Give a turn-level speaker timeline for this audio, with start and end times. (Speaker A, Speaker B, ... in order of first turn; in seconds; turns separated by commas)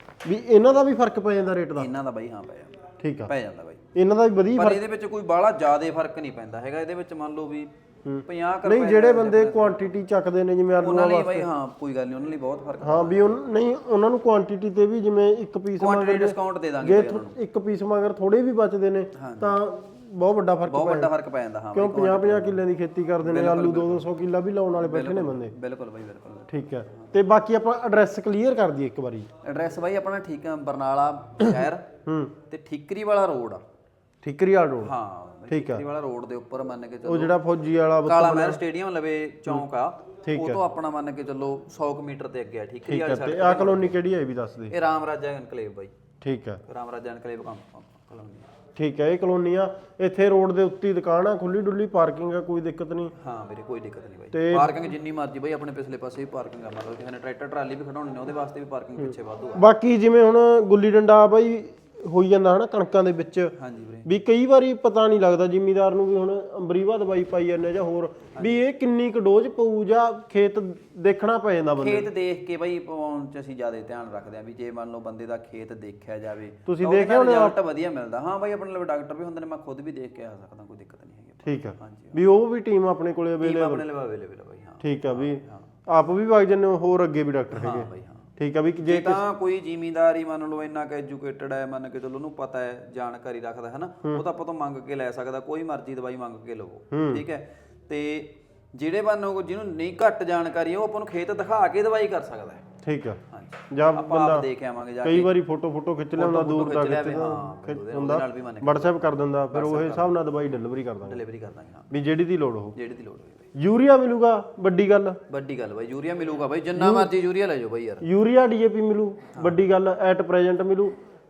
Speaker A: 0.2-1.9, Speaker B: 1.7-3.8, Speaker A: 3.0-3.3, Speaker A: 3.9-4.8, Speaker B: 4.5-7.7, Speaker A: 8.0-11.5, Speaker B: 8.2-9.9, Speaker B: 10.8-13.5, Speaker A: 12.8-21.1, Speaker B: 15.8-17.4, Speaker B: 19.1-19.6, Speaker B: 20.7-22.6, Speaker A: 21.7-25.5, Speaker B: 23.2-24.1, Speaker B: 24.8-27.1, Speaker A: 26.5-29.3, Speaker B: 29.4-31.9, Speaker A: 32.0-32.3, Speaker B: 32.5-33.6, Speaker A: 34.2-34.9, Speaker B: 34.8-37.3, Speaker A: 35.5-35.8, Speaker A: 37.0-38.6, Speaker B: 38.0-44.0, Speaker A: 40.2-40.6, Speaker A: 42.9-44.7, Speaker B: 44.7-45.9, Speaker A: 46.2-46.6, Speaker B: 46.7-48.5, Speaker A: 48.8-53.1, Speaker B: 53.2-59.6, Speaker A: 54.3-54.9, Speaker A: 59.0-63.5, Speaker B: 63.6-64.1, Speaker A: 64.0-72.1, Speaker B: 71.8-82.2, Speaker A: 76.7-77.6, Speaker A: 81.4-83.8, Speaker B: 83.4-85.7, Speaker A: 84.8-89.2, Speaker B: 87.5-88.3, Speaker B: 88.8-102.6, Speaker A: 96.9-97.2, Speaker A: 102.8-103.2, Speaker B: 103.3-105.3, Speaker A: 103.7-104.5, Speaker A: 105.0-111.2, Speaker B: 106.2-109.0, Speaker B: 109.5-110.1, Speaker B: 111.0-111.9, Speaker A: 111.9-112.8, Speaker B: 112.7-113.5, Speaker A: 113.5-115.2, Speaker B: 115.3-118.0, Speaker A: 116.7-117.1, Speaker A: 118.0-120.9, Speaker B: 119.3-119.6